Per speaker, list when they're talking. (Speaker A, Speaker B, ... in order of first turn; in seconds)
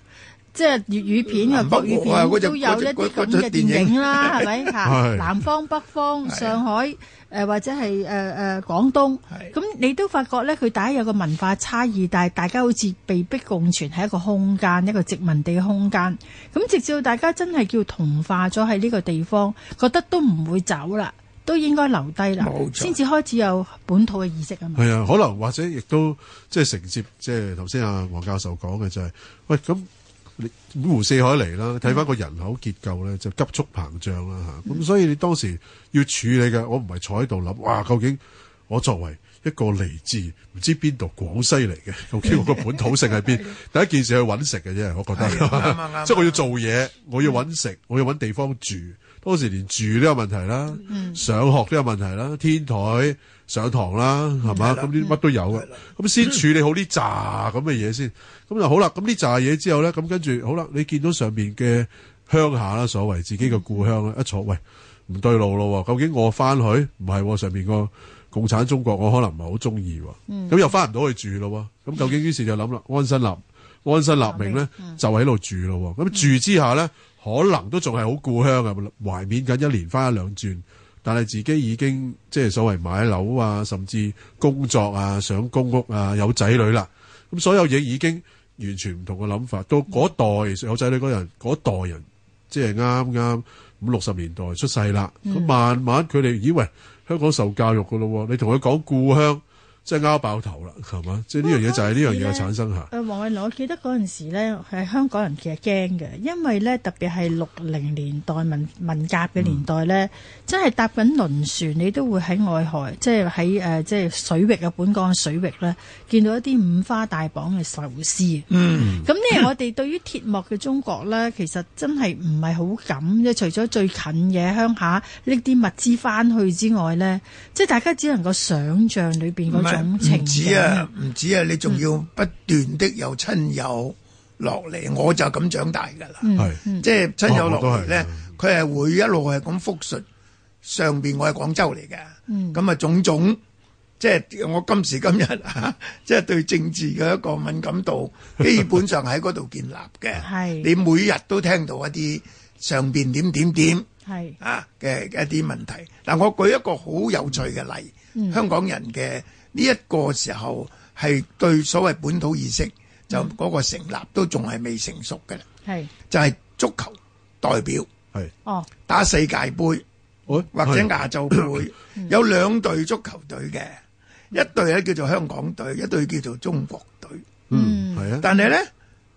Speaker A: 0.5-24.9, 50.9-51.2, 54.5-55.2, 63.4-63.9, 70.3-70.6, 74.2-75.0, 95.2-95.6, 101.4-130.9, 136.2-136.9, 142.3-142.6, 150.2-150.7, 154.1-154.4, 158.2-158.4, 165.7-165.9, 177.5-178.5
Speaker B: 1.3-4.7, 6.2-6.6, 22.4-23.0, 45.1-46.5, 54.5-55.0, 55.5-56.4, 118.5-119.5, 129.5-136.3, 136.8-140.1, 140.6-143.4, 144.0-153.9, 154.4-165.5, 166.1-167.9, 168.9-169.8, 170.5-173.8, 174.3-177.2, 178.2-178.7
Speaker C: 4.8-5.3, 24.8-102.9, 137.3-138.4, 170.3-171.6, 177.5-178.3